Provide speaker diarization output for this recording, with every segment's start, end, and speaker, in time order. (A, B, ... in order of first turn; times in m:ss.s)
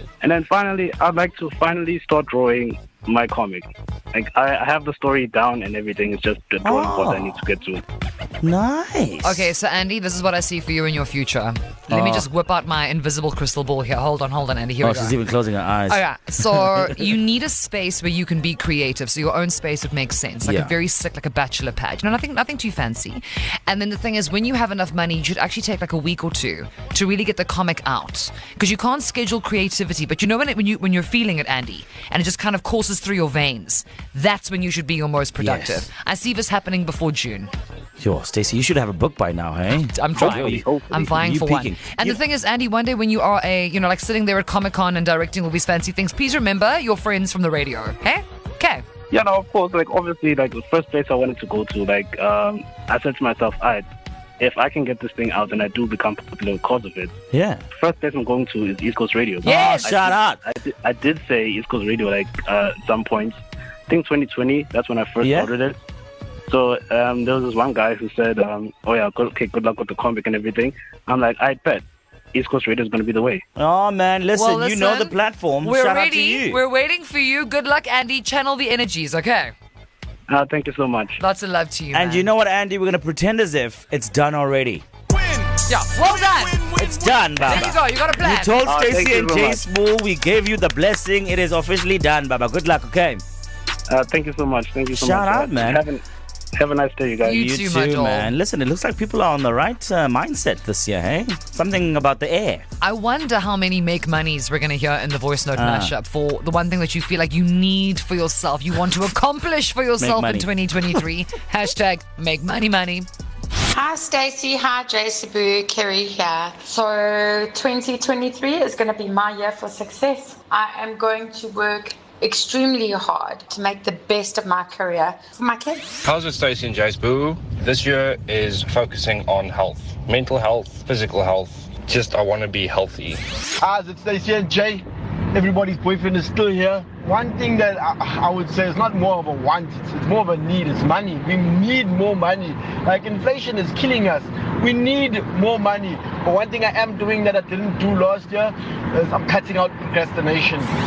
0:00.2-0:07.8 A
0:06.6-0:07.3 B
0:08.4-0:09.5 B
0:09.2-0:15.2 C
0:11.9-0:12.3 B
0:14.8-0:16.9 B
0:15.9-0:37.5 C
0:20.4-0:20.8 B
0:35.4-0:35.9 B
0:38.0-0:42.2 B
0:39.9-0:48.8 C
0:40.2-0:41.1 A
0:49.1-0:53.8 A
0:54.4-0:57.1 A
0:57.3-0:57.6 B
0:57.8-1:05.8 A
0:59.4-0:59.9 C
0:59.4-1:00.4 B
1:05.2-1:05.5 B
1:06.5-1:13.4 A
1:13.6-1:16.6 B
1:14.3-1:19.5 C
1:20.3-1:21.2 A
1:21.2-1:22.3 C
1:21.9-1:24.8 B
1:25.7-1:26.8 C
1:26.8-1:33.2 B
1:27.4-1:28.6 C
1:28.6-1:29.6 A
1:33.9-1:36.0 A
1:34.9-1:35.8 B
1:36.6-1:37.4 A
1:37.2-1:38.3 C
1:37.3-1:42.6 B
1:42.8-1:53.1 C
1:45.6-1:45.9 B
1:50.0-1:50.5 B
1:53.7-2:05.9 D
2:06.0-2:13.2 E
2:13.6-2:30.7 F